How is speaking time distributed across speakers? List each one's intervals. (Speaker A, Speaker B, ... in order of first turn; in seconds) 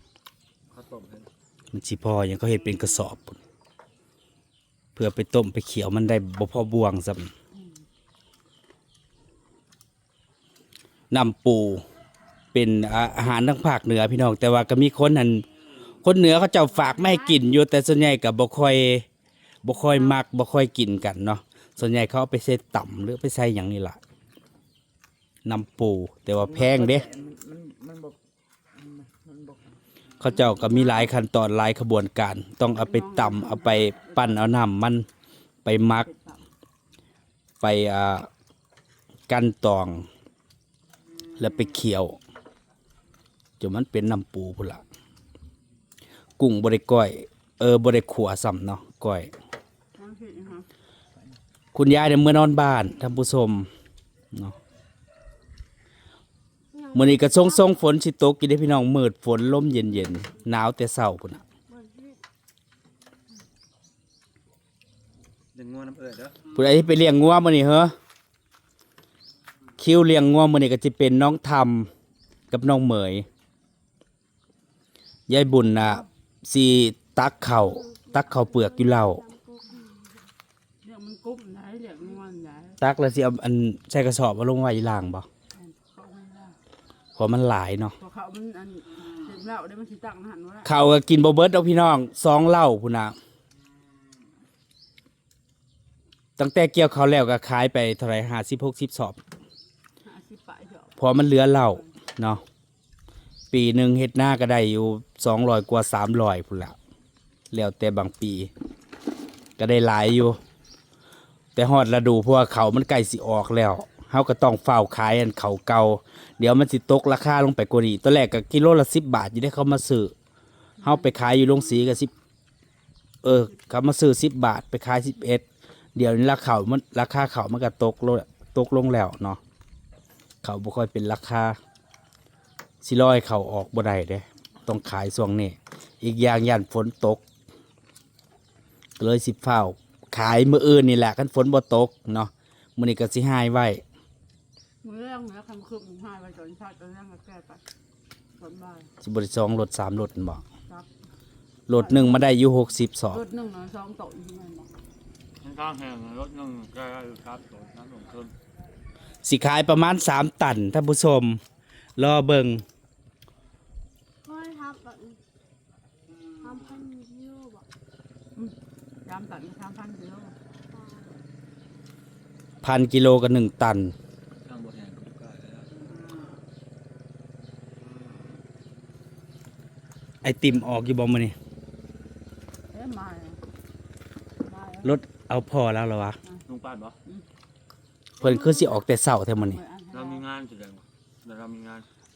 Speaker A: 0.7-1.3, 65.5-66.3, 155.4-158.3, 174.4-175.7, 186.5-186.9, 189.9-191.9
Speaker B: 1.7-3.4, 4.9-7.3, 11.1-11.8, 12.5-15.4, 16.0-19.1, 19.6-24.0, 25.4-27.1, 30.2-35.0, 35.6-36.1, 37.6-38.3, 39.3-40.0, 41.4-42.2, 43.6-44.8, 46.4-49.3, 51.7-53.7, 56.9-61.4, 66.5-67.9, 69.8-71.9, 72.5-73.2, 75.3-79.2, 82.8-85.3, 87.2-88.0, 90.6-93.2, 96.4-99.2, 101.0-102.4, 103.5-106.7, 107.5-108.5, 109.6-110.4, 111.5-120.1, 120.8-122.1, 123.2-125.4, 126.0-129.4, 130.4-131.6, 132.8-137.2, 139.0-143.8, 149.0-150.4, 151.7-153.2, 159.2-161.4, 162.0-162.6, 172.6-173.9, 180.2-181.3, 184.8-186.2, 188.2-189.6
Speaker C: 16.9-17.3, 30.3-31.1, 32.8-34.5, 36.0-36.4, 50.0-50.6, 80.8-82.8, 85.5-86.5, 88.0-90.7, 100.0-101.0, 120.8-121.1, 144.8-147.6, 148.4-148.9, 150.5-150.9, 151.7-152.2, 153.1-154.7, 169.1-170.3, 182.7-183.4, 184.4-185.0, 188.2-188.7, 189.4-190.2
Speaker D: 26.3-28.1, 28.7-29.8
Speaker E: 56.7-57.8, 61.7-62.2, 77.8-80.0, 164.2-165.2, 166.4-167.7, 170.7-171.2